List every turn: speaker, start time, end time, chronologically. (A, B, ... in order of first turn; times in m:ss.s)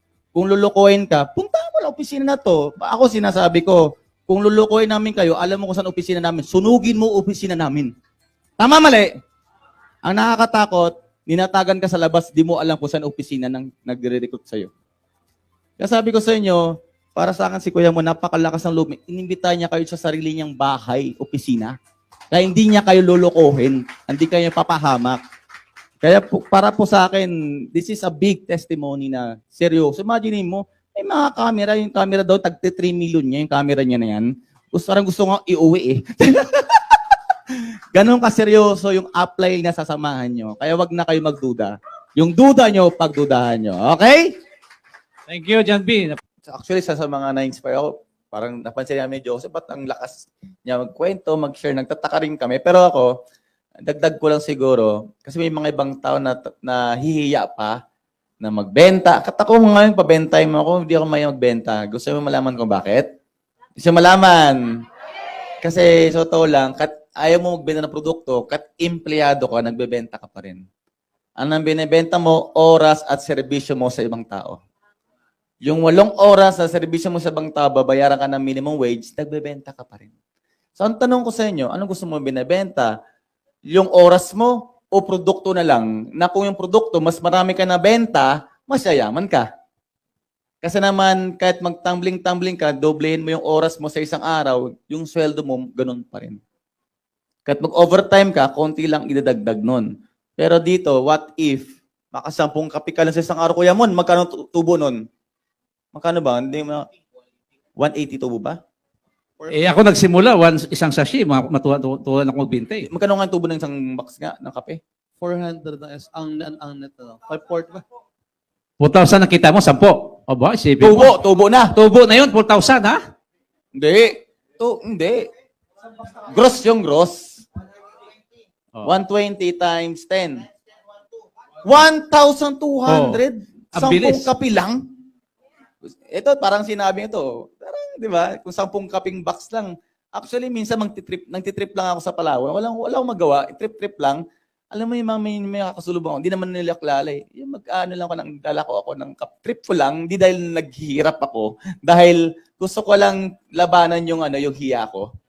0:00.3-0:07.9 A
0:08.6-0:09.1 A
0:10.0-0:14.7 A
0:15.8-0:16.6 A
0:17.2-0:21.7 A
0:22.3-0:25.2 A
0:26.0-0:37.0 A
0:37.9-0:44.3 A
0:45.3-0:46.2 B
0:46.4-0:53.1 A
0:53.8-0:57.8 A
0:58.4-1:03.0 A
1:03.8-1:04.6 A
1:05.6-1:10.6 A
1:11.4-1:14.6 A
1:15.6-1:20.1 A
1:20.8-1:22.9 A
1:23.7-1:29.5 A
1:30.6-1:36.4 A
1:37.4-1:39.9 A
1:40.4-1:45.0 A
1:45.9-1:46.8 A
1:47.8-1:48.6 A
1:49.4-1:49.7 C
1:49.5-1:52.9 B
1:52.8-1:54.8 A
1:55.2-1:57.8 C
1:58.8-2:01.1 B
2:00.8-2:01.7 A
2:01.7-2:03.0 B
2:03.7-2:05.3 A
2:06.2-2:07.4 A
2:08.8-2:10.4 A
2:11.6-2:14.8 A
2:12.9-2:13.2 B
2:13.7-2:14.3 B
2:16.1-2:24.2 A
2:24.7-2:35.1 A